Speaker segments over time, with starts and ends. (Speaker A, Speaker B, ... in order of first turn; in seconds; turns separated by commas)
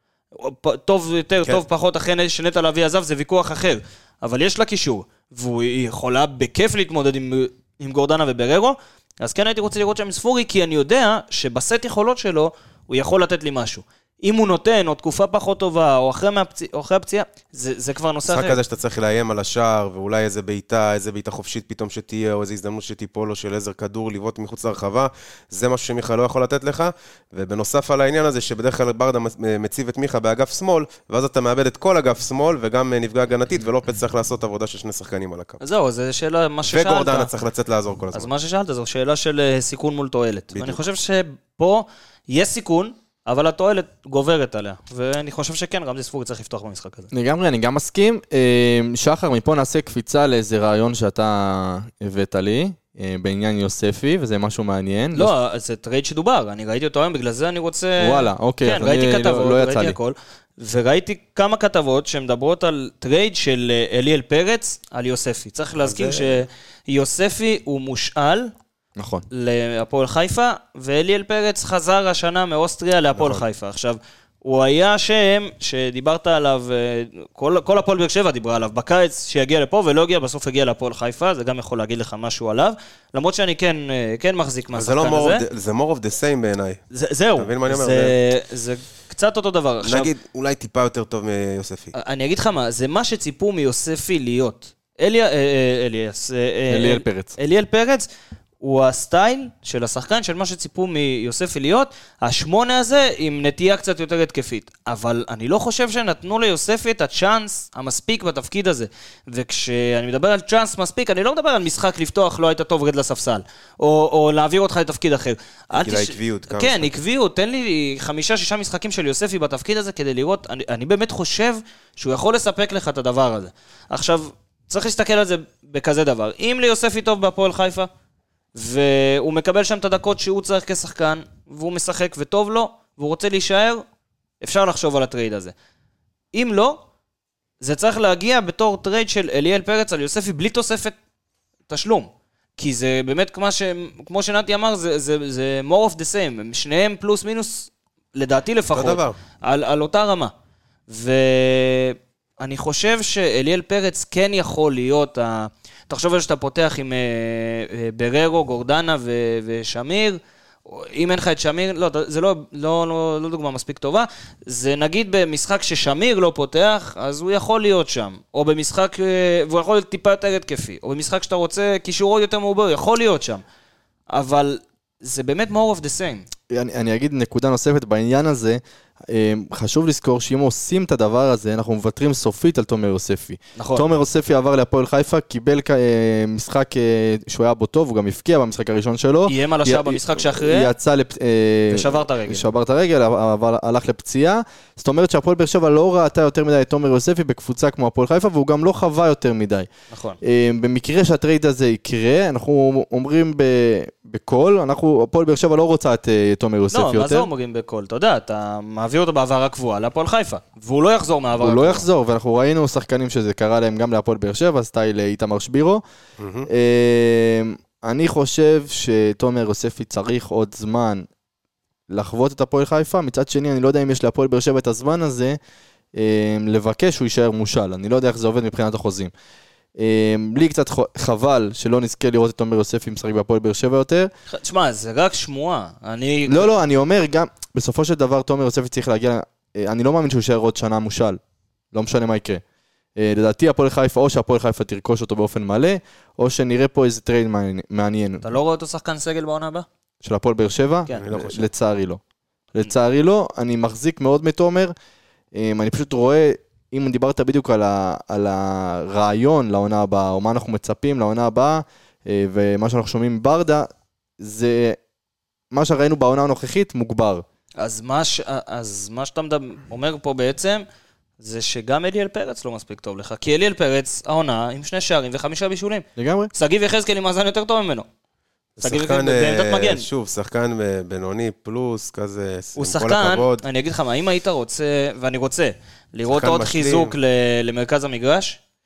Speaker A: 0.3-18.6, Speaker B: 18.3-35.6, Speaker A: 35.6-37.3, Speaker B: 36.6-38.3, Speaker A: 38.1-47.1, Speaker B: 40.5-40.8, Speaker C: 47.1-55.3, Speaker A: 55.1-68.5, Speaker C: 58.0-60.0, Speaker B: 65.8-66.4, Speaker C: 69.0-69.2, Speaker A: 69.3-85.5, Speaker B: 73.1-73.4, Speaker B: 84.7-86.8, Speaker A: 86.9-90.1, Speaker B: 87.3-88.1, Speaker B: 89.8-91.9, Speaker A: 91.9-98.1, Speaker C: 96.7-97.3, Speaker A: 98.6-127.9, Speaker B: 115.7-116.9, Speaker A: 128.5-133.8, Speaker A: 134.4-135.5, Speaker A: 136.3-136.8, Speaker A: 137.6-141.0, Speaker A: 141.7-150.3, Speaker B: 148.7-149.2, Speaker A: 150.9-173.4, Speaker A: 174.1-176.2, Speaker C: 176.5-199.7, Speaker A: 183.6-183.8, Speaker A: 189.3-190.7, Speaker A: 191.7-192.4, Speaker A: 199.9-200.2, Speaker C: 200.2-207.3, Speaker A: 206.7-211.8, Speaker C: 211.4-215.8, Speaker B: 216.2-216.5, Speaker C: 216.5-221.1, Speaker C: 221.9-225.4, Speaker C: 225.9-229.1, Speaker C: 229.8-234.1, Speaker A: 234.3-236.5, Speaker C: 236.3-241.2, Speaker C: 241.7-242.4, Speaker C: 242.9-248.2, Speaker A: 248.2-249.7, Speaker C: 250.0-252.0, Speaker B: 250.9-251.5, Speaker C: 252.5-254.7, Speaker C: 255.3-263.7, Speaker C: 264.2-264.8, Speaker C: 265.5-267.2, Speaker A: 267.6-270.6, Speaker A: 271.2-277.9, Speaker C: 276.0-276.3, Speaker B: 278.6-283.4, Speaker A: 278.6-279.9, Speaker A: 282.6-288.4, Speaker B: 286.1-286.9